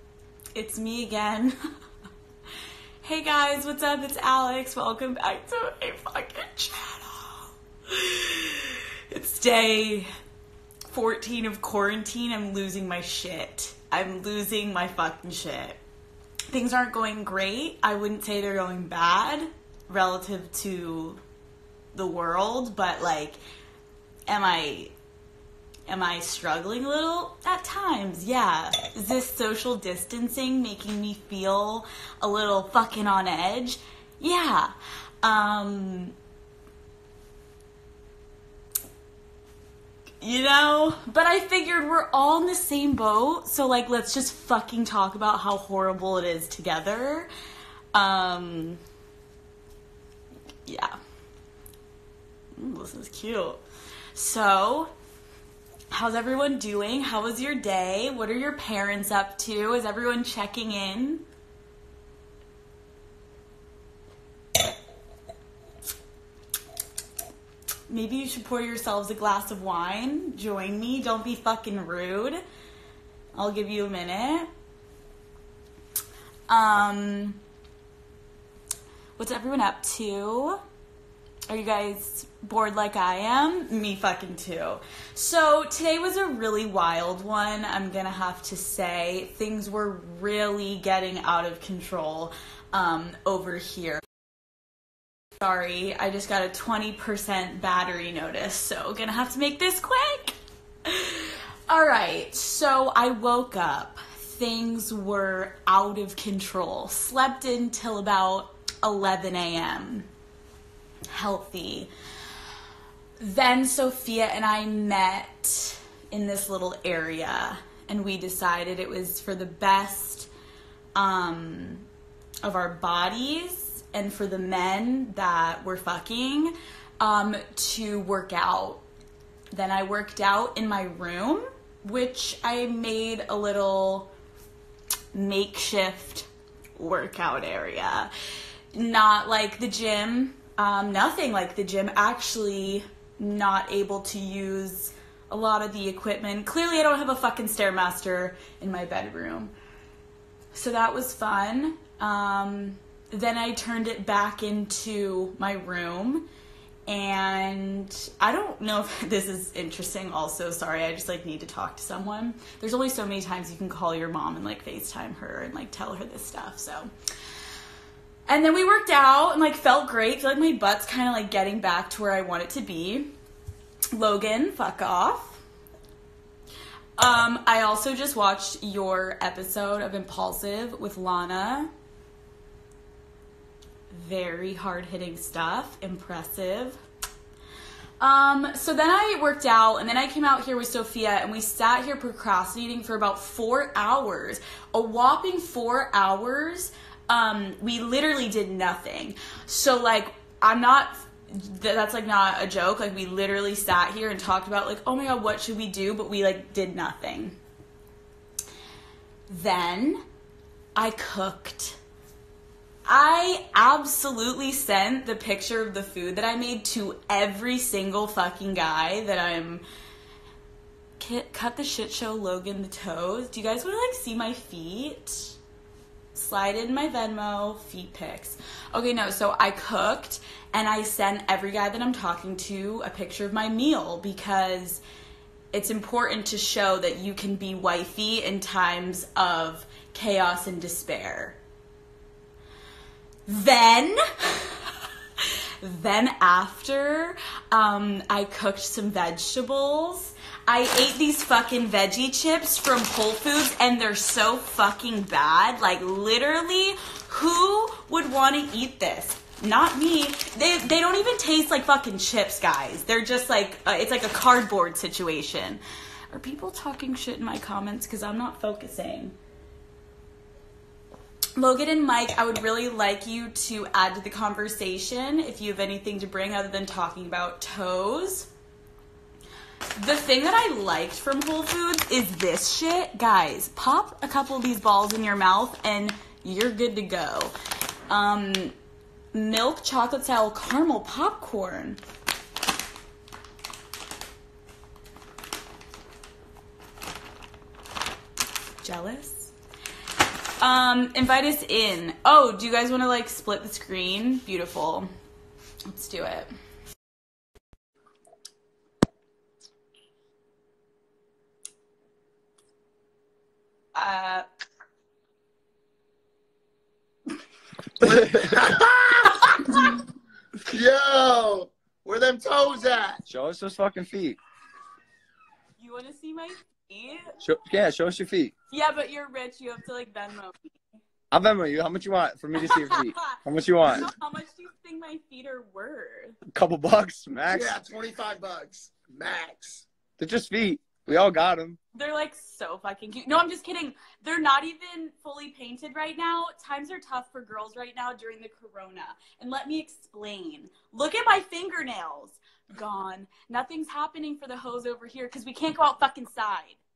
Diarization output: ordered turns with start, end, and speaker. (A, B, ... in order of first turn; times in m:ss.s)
0:00.5-0:01.5 A
0:03.0-0:10.1 A
0:10.9-0:15.8 A
0:16.5-0:21.2 A
0:21.9-0:23.4 A
0:24.3-0:24.9 A
0:25.9-0:36.1 A
0:40.2-0:47.3 A
0:47.9-0:48.8 A
0:50.6-0:51.0 A
0:52.6-0:53.6 A
0:54.1-0:54.9 A
0:55.9-1:01.2 A
1:07.9-1:12.4 A
1:13.3-1:14.5 A
1:16.5-1:17.4 A
1:19.2-1:20.6 A
1:21.5-1:34.0 A
1:35.4-1:50.1 A
1:51.1-1:51.9 A
1:53.2-2:00.3 A
2:00.9-2:01.8 A
2:02.4-2:08.8 A
2:09.5-2:14.1 A
2:15.1-2:18.1 A
2:18.7-2:29.5 A
2:30.5-2:36.2 A
2:36.9-2:46.9 A
2:48.3-2:53.1 A
2:53.9-2:55.4 A
2:57.0-3:01.7 A
3:03.9-3:06.8 A
3:08.0-3:27.4 A
3:29.3-3:30.0 A
3:30.8-3:31.8 A
3:32.9-3:39.6 A
3:41.0-3:45.4 A
3:46.1-3:54.8 A
3:55.5-4:01.4 A
4:03.2-4:04.6 A
4:05.6-4:29.2 A
4:31.4-4:38.3 A
4:39.8-4:47.3 A
4:47.9-4:48.5 A
4:49.1-4:51.8 A
4:58.6-4:59.3 A
5:00.4-5:04.9 A
5:05.7-5:06.3 A
5:13.7-5:14.2 A
5:17.8-5:18.5 B
5:17.8-5:19.1 C
5:20.4-5:23.0 C
5:23.1-5:24.2 B
5:25.6-5:27.0 A
5:27.2-5:28.3 B
5:28.5-5:30.6 A
5:31.1-5:33.9 B
5:32.4-5:36.2 A
5:36.3-5:37.5 B
5:37.3-5:39.6 C
5:40.0-5:41.6 B
5:41.7-5:56.6 A